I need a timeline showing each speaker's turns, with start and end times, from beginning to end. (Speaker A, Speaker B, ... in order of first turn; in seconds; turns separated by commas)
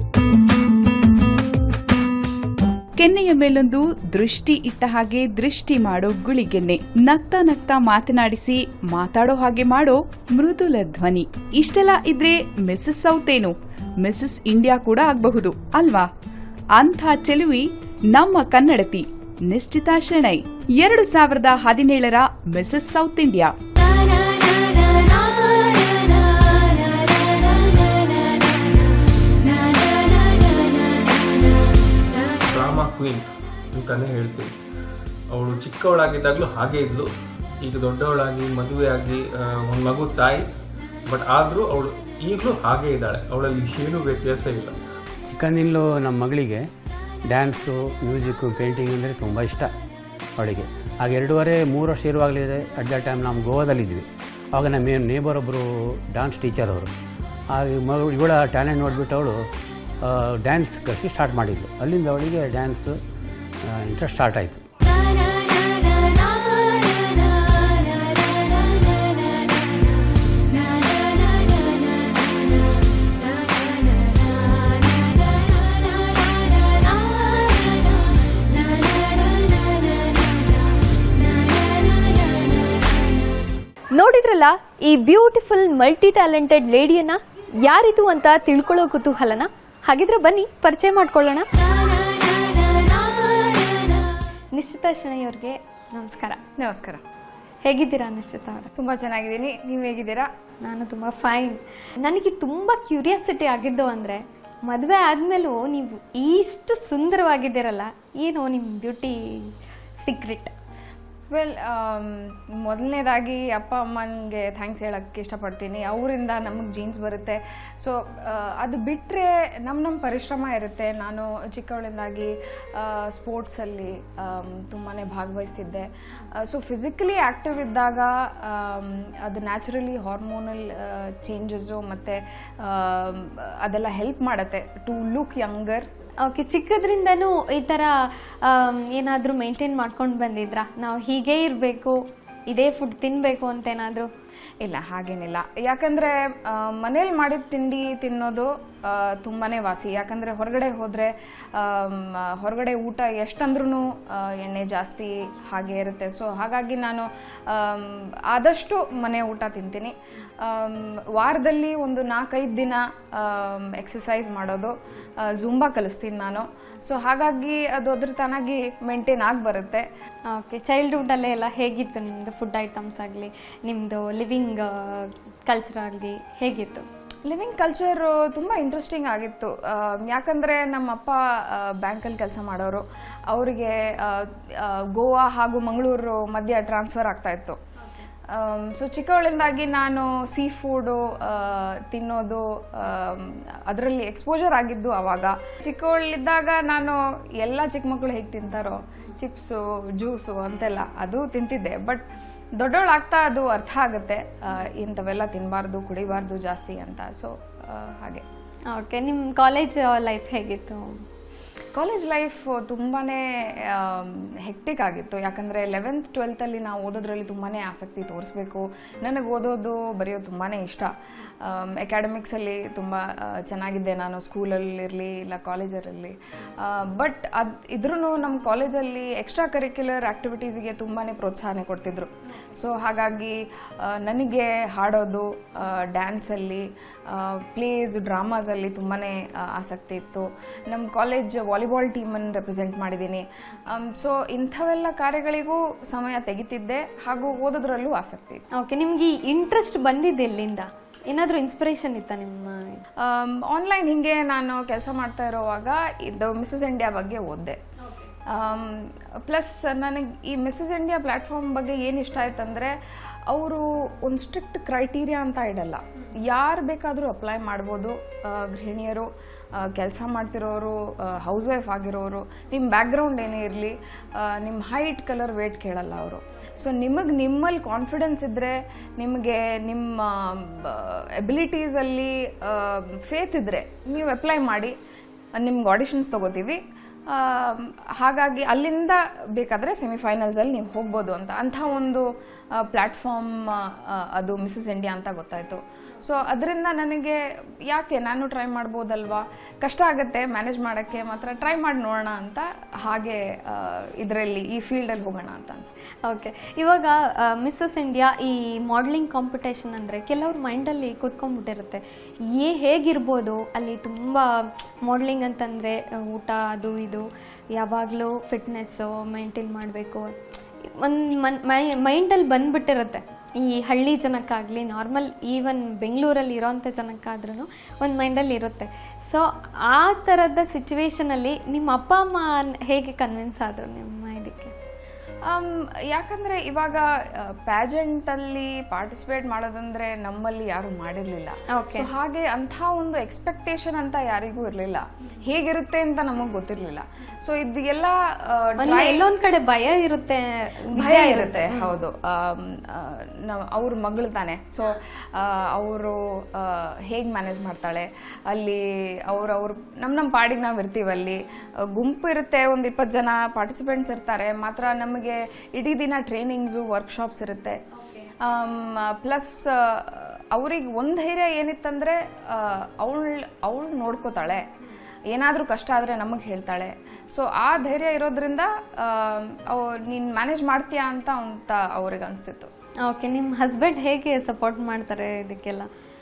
Speaker A: 3.0-16.1, Speaker A: 16.8-23.5, Speaker B: 32.5-34.5, Speaker B: 35.3-37.1, Speaker B: 37.6-40.4, Speaker B: 41.1-44.8, Speaker C: 45.3-46.6, Speaker C: 47.3-49.7, Speaker C: 50.4-56.9, Speaker C: 57.5-59.4, Speaker C: 60.0-63.0, Speaker C: 63.6-64.6, Speaker D: 83.9-94.0, Speaker D: 94.5-96.4, Speaker E: 96.6-97.0, Speaker D: 97.7-98.7, Speaker E: 98.8-100.3, Speaker D: 100.6-110.5, Speaker E: 111.3-125.9, Speaker E: 126.4-135.9, Speaker D: 136.2-144.1, Speaker E: 144.6-169.9, Speaker D: 170.3-176.9, Speaker E: 177.3-187.6, Speaker E: 188.3-202.0, Speaker E: 202.6-208.2, Speaker D: 208.7-211.0, Speaker E: 211.7-220.9, Speaker E: 221.4-248.4, Speaker D: 248.6-252.8, Speaker E: 253.0-257.6, Speaker E: 258.3-262.7, Speaker E: 263.3-284.7, Speaker E: 285.4-286.6, Speaker E: 287.1-292.1, Speaker E: 292.6-305.7, Speaker D: 306.0-311.8, Speaker D: 312.4-320.1, Speaker D: 320.8-334.5, Speaker E: 335.3-349.0, Speaker D: 341.5-341.9, Speaker D: 348.6-351.7, Speaker E: 350.7-361.2, Speaker E: 361.8-367.6, Speaker D: 367.8-368.1, Speaker E: 368.2-374.4, Speaker E: 375.1-382.5, Speaker D: 382.9-385.7